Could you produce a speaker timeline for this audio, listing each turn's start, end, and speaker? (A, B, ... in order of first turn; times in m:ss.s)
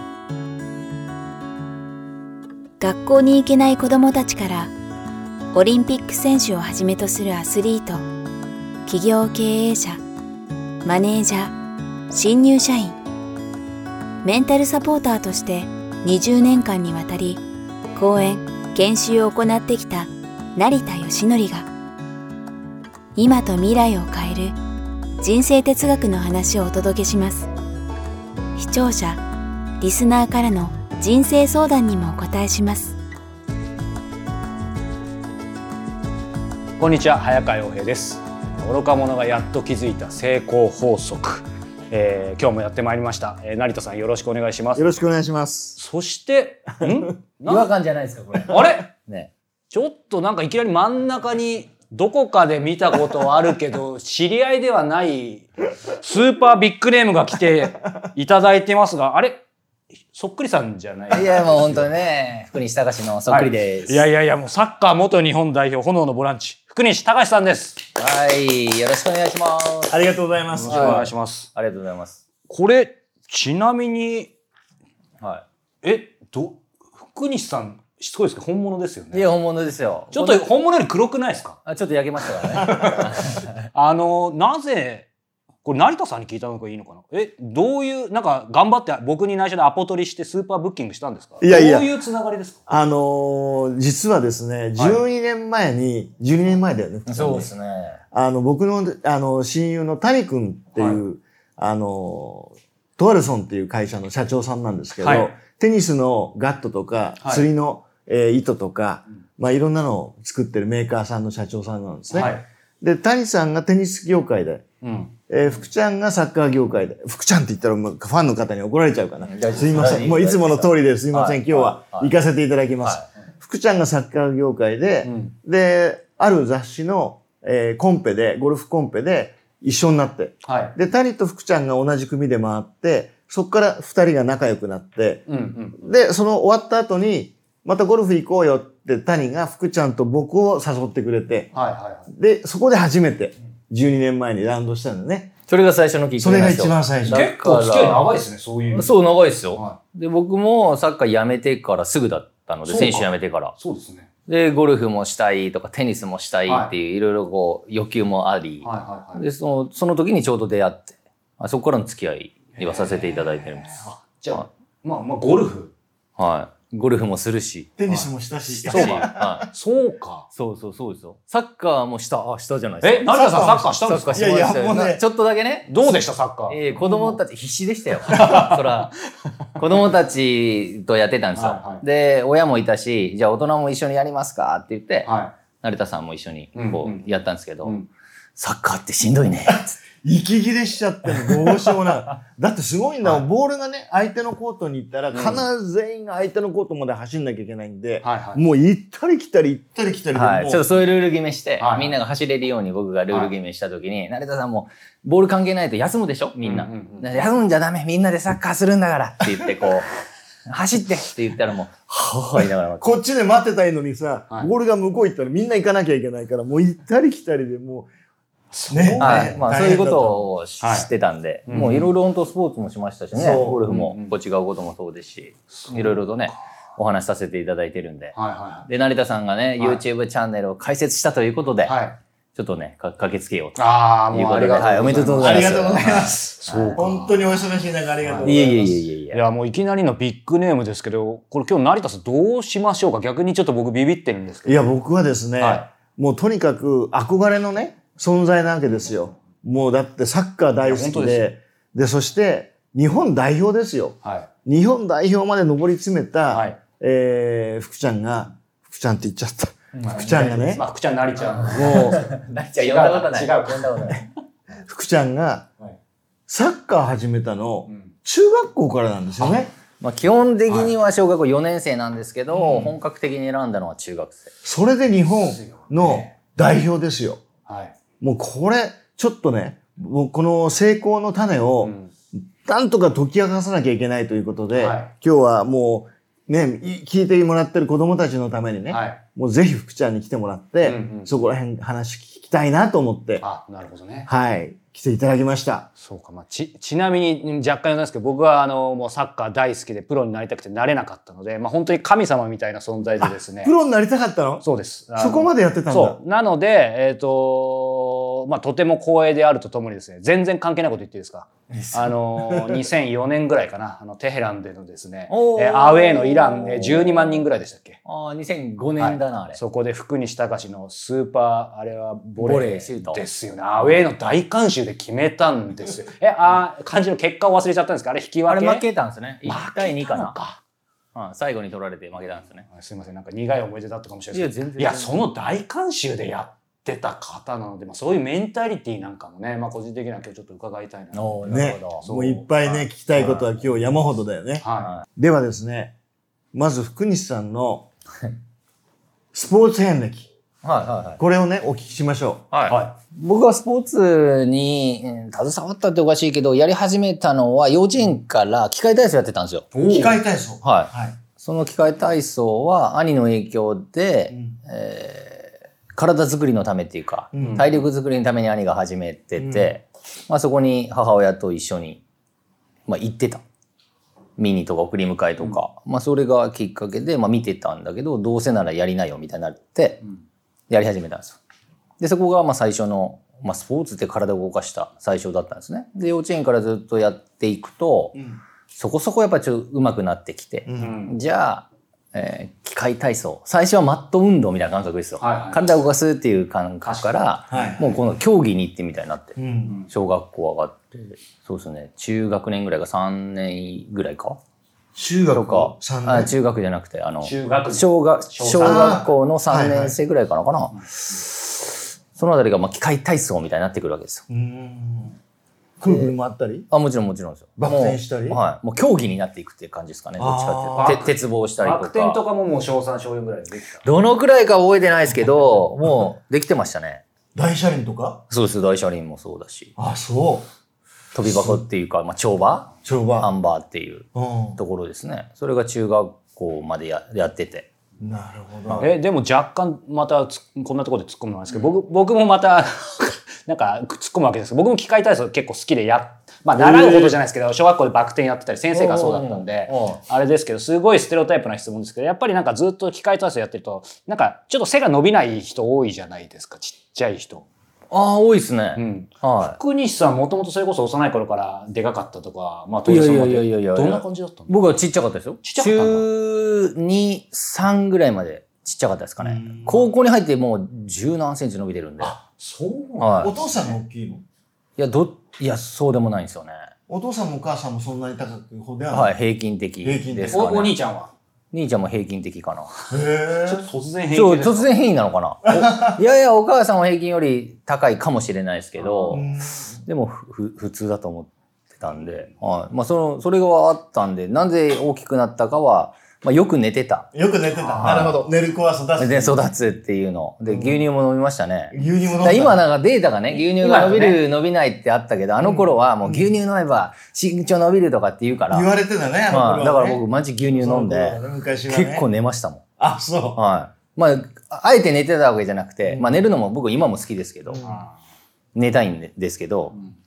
0:02.8-0:04.7 A
0:05.5-0:08.0 A
0:08.9-0:10.0 A
0:10.8-0:11.6 A
0:12.1-0:13.0 A
0:14.2-0:17.4 A
0:17.9-0:21.7 A
0:23.2-0:24.6 A
0:25.2-0:27.5 A
0:28.6-0:29.2 A
0:29.8-0:33.0 A
0:36.8-0:44.9 B
0:44.8-0:45.8 C
0:45.8-0:47.7 B
0:46.8-0:47.1 C
0:47.5-0:49.3 D
0:48.4-0:48.9 B
0:49.7-0:59.4 B
1:00.1-1:01.9 B
1:01.1-1:04.0 D
1:03.3-1:07.8 B
1:08.0-1:09.9 D
1:09.9-1:11.1 C
1:10.5-1:11.5 B
1:10.7-1:12.2 D
1:12.5-1:14.3 B
1:15.2-1:15.4 D
1:15.8-1:19.3 B
1:19.1-1:20.4 D
1:20.1-1:21.6 B
1:21.6-1:23.5 D
1:22.6-1:22.9 B
1:22.7-1:23.0 C
1:23.7-1:25.1 B
1:25.6-1:32.6 B
1:31.4-1:31.9 C
1:32.7-1:37.5 C
1:37.1-1:38.0 D
1:38.1-1:54.6 C
1:45.0-1:45.3 B
1:52.1-1:52.4 B
1:54.8-1:55.1 B
1:55.3-2:15.2 C
1:59.3-2:02.1 D
2:05.0-2:05.3 B
2:10.5-2:10.7 B
2:15.3-2:15.8 B
2:15.8-2:21.5 C
2:21.5-2:22.1 B
2:22.1-2:25.3 C
2:25.5-2:28.1 D
2:26.2-2:27.3 C
2:27.1-2:28.9 B
2:28.7-2:33.5 D
2:29.5-2:29.8 B
2:32.7-2:34.1 B
2:34.3-2:44.4 D
2:36.5-2:36.7 B
2:38.6-2:39.2 B
2:42.6-2:45.7 B
2:46.2-2:47.7 D
2:47.8-2:49.5 C
2:48.7-2:49.5 D
2:48.7-2:50.3 B
2:50.3-2:55.8 D
2:52.8-2:54.5 B
2:53.1-2:55.0 C
2:55.7-2:57.2 B
2:56.5-2:58.9 D
2:58.1-2:58.6 C
2:58.1-2:58.6 B
2:59.6-3:07.8 D
3:01.4-3:01.8 B
3:05.1-3:05.4 B
3:06.6-3:07.1 B
3:08.4-3:09.7 D
3:09.5-3:20.7 C
3:15.1-3:15.4 B
3:18.0-3:18.4 B
3:20.1-3:29.9 D
3:21.6-3:22.0 B
3:26.4-3:27.1 B
3:30.5-3:33.0 D
3:32.8-3:37.9 C
3:38.5-3:39.4 B
3:38.7-3:40.3 C
3:39.0-3:48.2 D
3:40.6-3:40.9 B
3:41.5-3:41.9 B
3:43.1-3:43.6 C
3:43.3-3:44.1 B
3:45.5-3:46.0 B
3:48.2-3:48.7 B
3:48.7-3:51.8 D
3:49.6-3:49.8 B
3:51.6-3:52.0 B
3:52.4-3:56.8 D
3:53.6-3:57.3 B
3:55.2-3:58.8 C
3:58.0-3:58.3 B
3:58.2-3:59.2 D
3:59.1-4:04.6 B
4:04.5-4:20.6 C
4:05.4-4:05.7 B
4:10.6-4:11.3 B
4:16.3-4:16.6 B
4:19.8-4:24.0 B
4:21.4-4:22.1 C
4:21.5-4:24.0 D
4:24.6-4:25.5 C
4:26.3-4:29.5 C
4:29.8-4:34.3 D
4:30.5-4:30.7 B
4:32.4-4:32.7 C
4:34.4-4:37.2 C
4:35.2-4:36.1 B
4:37.5-4:37.8 B
4:38.0-4:41.8 C
4:41.6-4:41.9 B
4:42.4-4:53.2 C
4:44.5-4:44.9 B
4:48.7-4:49.0 B
4:50.6-4:51.1 B
4:53.2-4:54.1 B
4:54.1-4:55.7 C
4:55.8-5:03.5 B
5:03.0-5:04.4 C
5:04.4-5:17.8 B
5:05.0-5:06.0 C
5:11.5-5:12.6 C
5:15.1-5:17.2 D
5:17.8-5:19.4 D
5:18.8-5:28.7 B
5:22.2-5:23.0 D
5:28.3-5:30.2 D
5:29.2-5:30.4 B
5:31.0-5:32.4 D
5:32.4-5:43.3 B
5:34.1-5:35.1 D
5:40.9-5:41.8 D
5:41.3-5:44.4 C
5:44.4-5:44.7 B
5:44.6-5:44.8 D
5:45.0-5:45.8 C
5:46.3-5:47.7 C
5:49.1-5:50.1 C
5:50.4-5:51.0 D
5:51.0-5:52.3 C
5:52.3-5:59.5 D
5:52.5-5:52.7 B
5:59.5-6:00.0 B
5:59.7-6:01.0 C
6:00.4-6:11.8 D
6:07.1-6:07.5 C
6:07.2-6:07.6 B
6:09.2-6:09.5 C
6:12.7-6:13.2 D
6:14.2-6:19.8 D
6:20.5-6:21.2 D
6:21.8-6:28.0 D
6:28.5-6:39.2 D
6:30.5-6:30.8 C
6:30.6-6:31.0 B
6:35.0-6:35.5 B
6:36.6-6:37.5 B
6:37.3-6:37.8 C
6:39.2-6:39.6 C
6:39.7-6:44.2 D
6:44.8-6:46.1 C
6:45.1-6:54.0 D
6:47.0-6:48.9 B
6:48.4-6:49.8 C
6:54.1-6:55.0 C
6:55.6-6:56.5 C
6:55.7-6:55.9 D
6:56.5-7:02.0 D
6:57.4-6:58.2 C
7:00.0-7:00.8 C
7:00.6-7:03.7 B
7:03.6-7:06.8 D
7:07.2-7:08.0 C
7:08.1-7:09.5 D
7:09.6-7:10.3 C
7:10.9-7:17.5 D
7:11.0-7:11.4 C
7:12.6-7:13.1 C
7:14.0-7:14.4 C
7:17.8-7:18.7 C
7:18.5-7:18.7 D
7:18.6-7:37.3 B
7:26.4-7:27.0 C
7:28.5-7:29.8 D
7:37.7-7:39.4 D
7:38.6-7:44.6 B
7:42.7-7:52.0 D
7:45.2-7:45.8 B
7:49.0-7:49.7 C
7:51.8-7:53.5 B
7:52.8-7:53.1 D
7:53.0-7:54.0 C
7:54.6-7:56.5 D
7:56.7-7:59.0 C
7:58.7-8:00.6 D
7:59.6-8:00.3 C
8:00.1-8:00.9 B
8:01.3-8:02.5 D
8:02.7-8:03.5 C
8:03.2-8:04.5 B
8:03.9-8:09.1 D
8:05.3-8:05.8 C
8:08.6-8:09.0 B
8:08.9-8:09.6 C
8:09.7-8:16.9 D
8:16.9-8:19.3 C
8:17.4-8:18.0 B
8:17.6-8:18.0 D
8:18.8-8:28.5 D
8:20.3-8:20.6 C
8:21.5-8:22.4 C
8:23.4-8:24.0 B
8:25.2-8:26.1 C
8:28.3-8:31.9 C
8:29.1-8:32.4 D
8:32.6-8:33.2 C
8:33.2-8:37.4 D
8:35.7-8:36.0 C
8:37.3-8:37.7 C
8:37.4-8:37.7 B
8:38.4-8:39.6 D